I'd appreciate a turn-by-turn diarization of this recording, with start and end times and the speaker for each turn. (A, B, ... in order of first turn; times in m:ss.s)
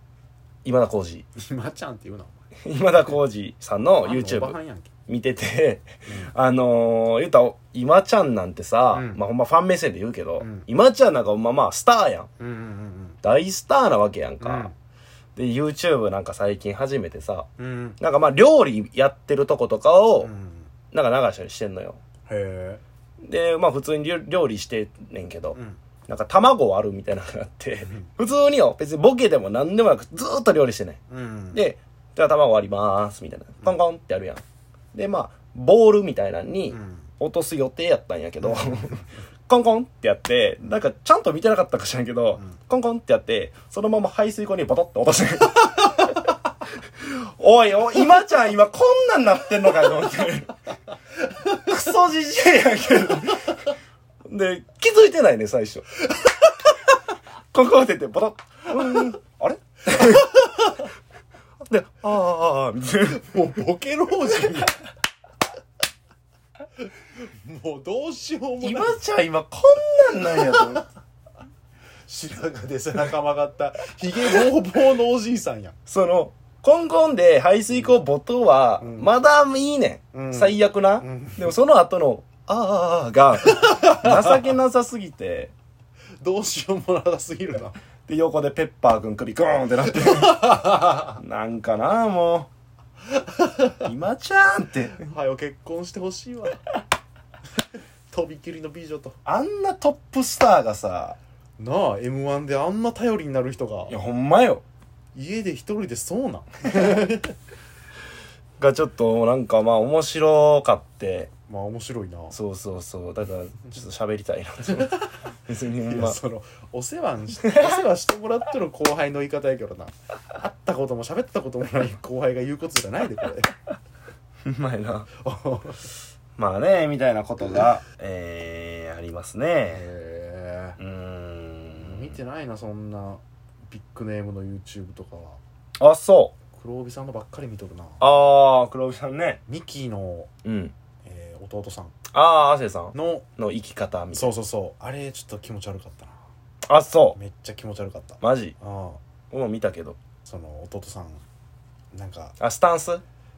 0:00.6-0:01.2 A
0:01.4-0:02.4 B
0:02.6-0:12.3 A
0:04.0-0:04.9 B
0:06.1-0:06.3 B
0:08.9-0:09.2 B
0:10.4-0:10.7 B
0:12.4-0:13.2 B
0:13.2-0:14.7 A
0:14.4-0:14.7 B
0:15.4-0:17.5 A
0:17.6-0:18.0 B
0:18.0-0:20.3 A
0:20.2-0:20.7 B
0:20.9-0:22.0 A
0:22.3-0:22.8 B
0:23.2-0:31.0 A
0:25.5-0:25.8 B
0:31.1-0:31.6 B
0:31.5-0:34.4 A
0:34.9-0:46.1 A
0:36.7-0:37.0 B
0:38.4-0:38.8 B
0:47.0-0:50.6 A
0:51.4-0:53.6 A
0:54.3-0:55.9 A
0:57.5-1:00.4 A
1:00.2-1:00.7 B
1:01.6-1:03.2 A
1:03.0-1:04.8 B
1:07.2-1:09.0 B
1:08.6-1:10.8 A
1:10.4-1:10.8 B
1:12.1-1:15.8 B
1:15.9-1:25.5 A
1:18.8-1:19.1 B
1:20.1-1:21.5 B
1:23.5-1:24.5 B
1:26.2-1:27.8 B
1:28.1-1:32.5 A
1:29.9-1:31.2 B
1:33.1-1:33.8 B
1:33.8-1:35.0 A
1:35.0-1:36.6 B
1:38.1-1:39.2 B
1:39.2-1:41.2 A
1:41.6-1:43.9 B
1:43.9-1:44.6 A
1:45.1-1:47.3 B
1:48.6-1:51.3 A
1:51.5-1:52.3 B
1:52.3-1:56.2 A
1:54.7-1:55.1 B
1:55.8-2:03.5 B
2:04.4-2:05.1 A
2:05.2-2:05.9 B
2:06.4-2:09.8 A
2:09.7-2:10.8 B
2:10.8-2:12.2 A
2:11.8-2:15.4 B
2:15.8-2:16.3 A
2:16.5-2:18.0 B
2:18.0-2:19.4 A
2:19.5-2:20.3 B
2:20.4-2:20.7 A
2:21.0-2:22.0 B
2:22.1-2:24.3 A
2:22.9-2:23.2 B
2:24.1-2:26.2 B
2:26.7-2:27.2 A
2:27.1-2:29.0 B
2:28.2-2:28.5 A
2:29.3-2:30.0 A
2:30.2-2:31.2 B
2:31.9-2:32.4 B
2:32.4-2:33.0 A